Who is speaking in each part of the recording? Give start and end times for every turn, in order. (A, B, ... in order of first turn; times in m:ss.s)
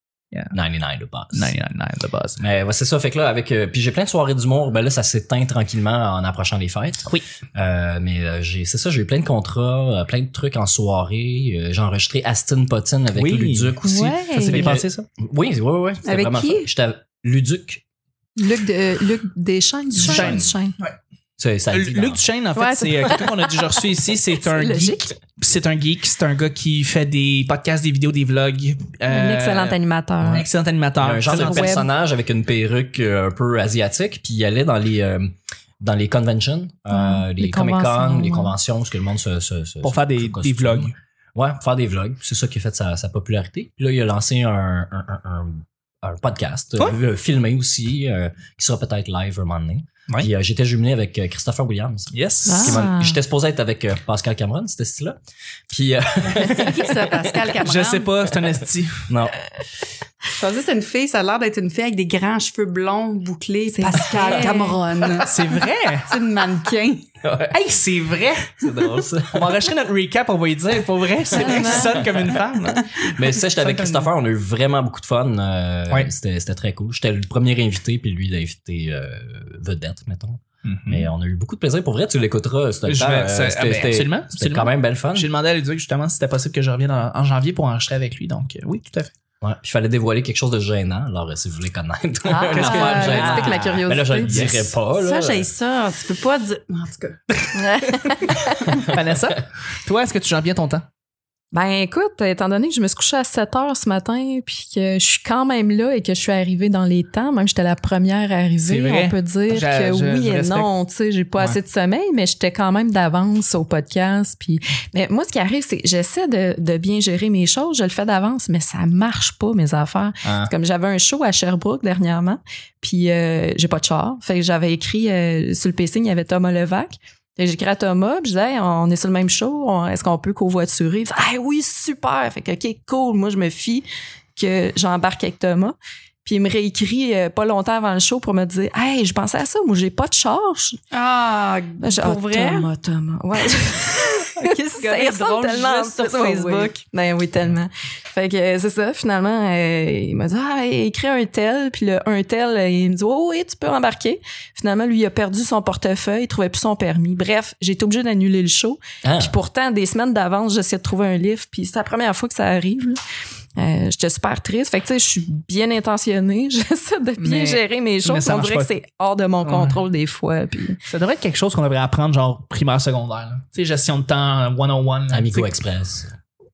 0:00.5-0:01.5 A
0:01.3-0:02.4 B
0:02.4-0:17.8 A
0:13.1-0:13.7 B
0:13.9-0:14.7 C
0:14.5-0:15.0 B
0:16.0-0:16.7 D
0:18.4-0:20.8 C
0:19.9-0:21.0 B
0:19.9-0:20.5 A
0:21.4-0:22.2 A
0:21.7-0:31.8 B
0:22.6-0:23.7 C
0:24.4-0:25.1 C
0:29.1-0:30.4 C
0:31.0-0:55.2 A
0:31.3-0:31.8 C
0:36.9-0:38.5 C
0:39.8-0:40.9 B
0:52.1-0:52.8 B
0:52.4-0:53.2 C
0:55.7-0:57.5 A
0:56.5-0:58.1 D
0:57.6-0:59.1 B
0:59.1-0:59.3 A
1:00.4-1:05.4 D
1:03.7-1:04.8 C
1:05.2-1:06.1 B
1:06.1-1:07.1 D
1:07.2-1:07.5 A
1:07.5-1:08.6 B
1:08.6-1:09.6 A
1:09.3-1:12.8 B
1:11.3-1:12.0 C
1:13.1-1:25.3 A
1:13.6-1:14.1 B
1:20.6-1:21.1 B
1:22.8-1:29.1 B
1:29.4-1:35.5 A
1:32.2-1:34.4 C
1:32.5-1:34.7 B
1:35.0-1:37.4 D
1:37.5-1:38.7 C
1:38.8-1:40.8 B
1:41.5-2:20.8 C
1:48.6-1:50.7 B
2:00.2-2:00.5 B
2:20.9-2:22.7 D
2:21.8-2:43.0 C
2:24.2-2:26.8 D
2:39.0-2:39.3 A
2:43.6-2:50.8 C
2:47.2-2:48.7 B
2:49.4-2:49.8 B
2:50.9-2:55.5 B
2:55.1-2:56.1 A